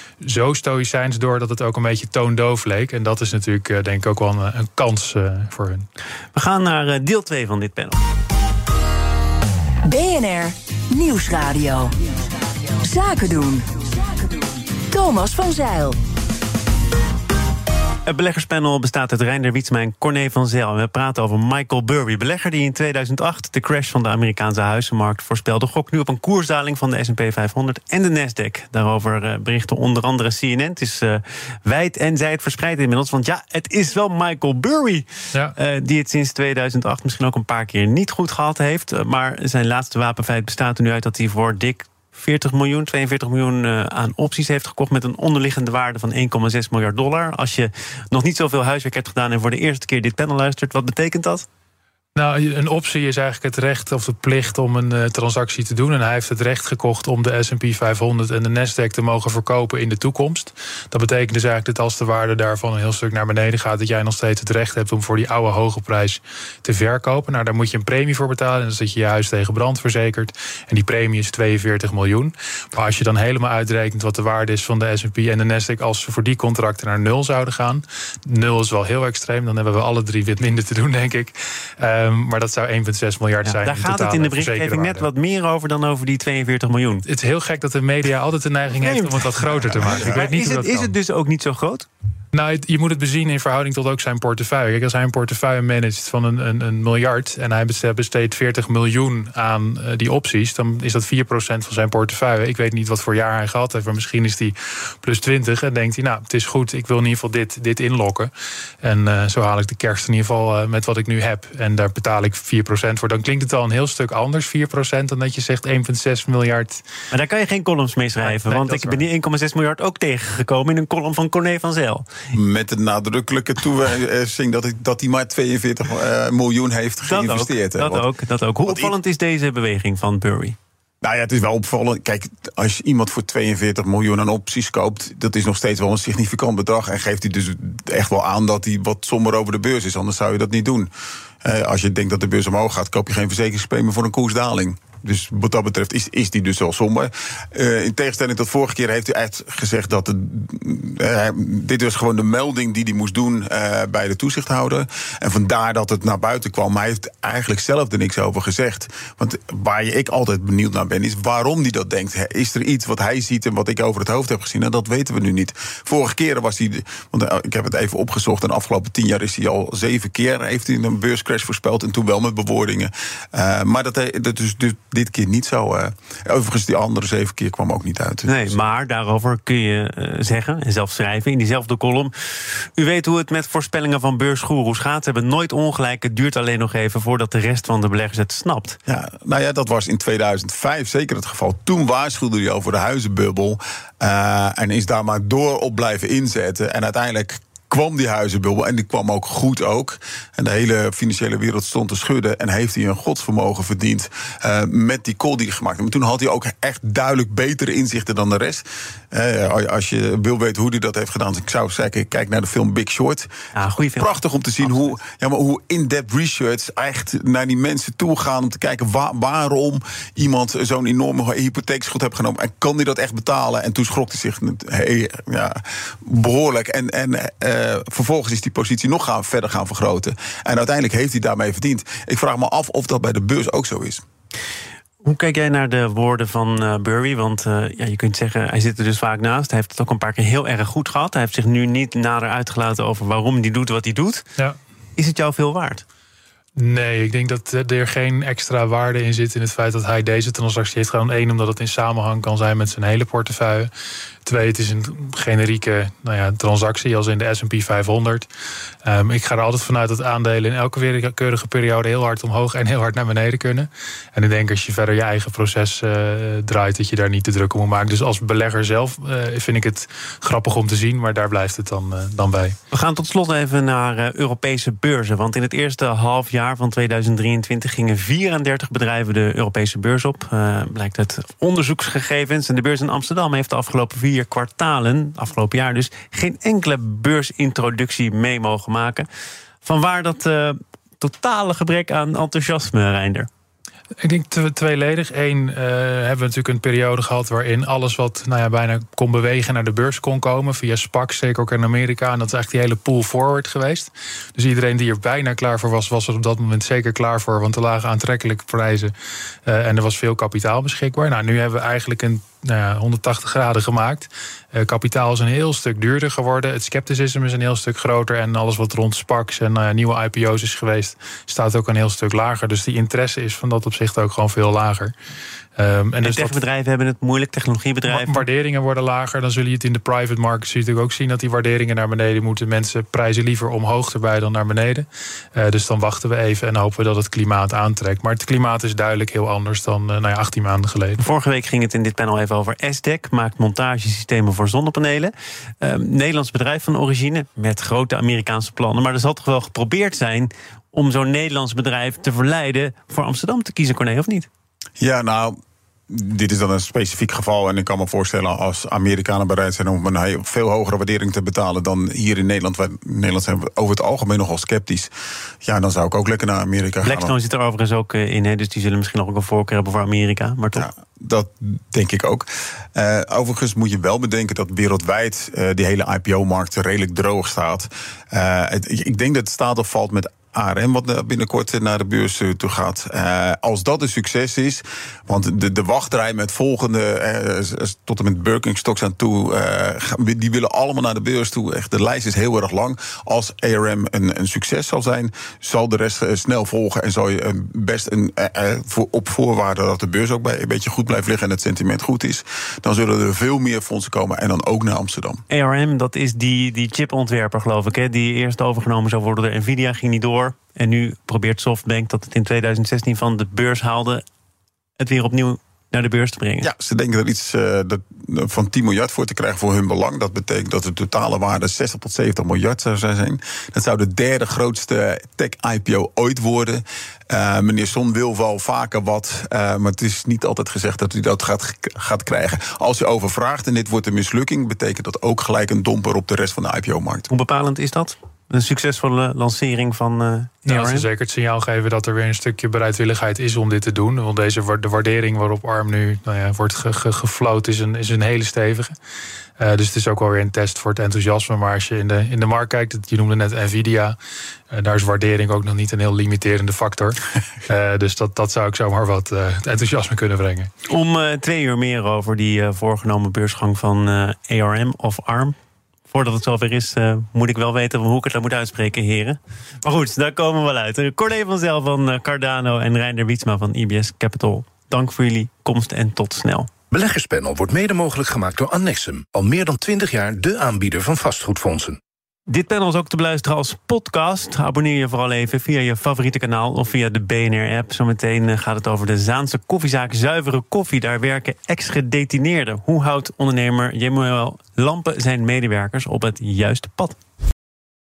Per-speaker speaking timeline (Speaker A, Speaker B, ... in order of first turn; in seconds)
Speaker A: 0.2-5.8, 52.1-85.1, 87.0-90.9, 92.3-108.3, 108.8-116.8, 118.2-119.0, 246.6-253.7, 254.2-258.3, 258.8-272.6, 294.0-308.9, 309.4-324.9, 325.6-326.4, 327.9-341.0, 440.4-448.7, 449.4-453.9, 454.5-460.5
Speaker B: 6.3-8.0, 18.1-51.5, 83.4-87.0, 88.8-91.9, 117.1-122.1, 127.1-130.6, 178.3-188.8, 213.5-214.9, 235.0-244.2, 245.0-245.8, 272.7-289.1, 289.6-293.3, 326.0-328.2, 341.0-354.3, 366.8-370.7, 405.3-414.0, 414.8-416.5, 437.1-440.9, 460.7-465.3, 465.9-476.5, 482.3-497.0
Speaker C: 9.8-11.9, 12.8-16.0
Speaker D: 122.3-128.0, 128.6-128.9, 131.0-140.9, 141.4-178.6, 188.9-213.3, 214.0-234.0, 354.8-355.4, 355.9-364.9, 365.4-367.1, 370.5-405.2, 416.4-437.1
Speaker E: 476.7-481.8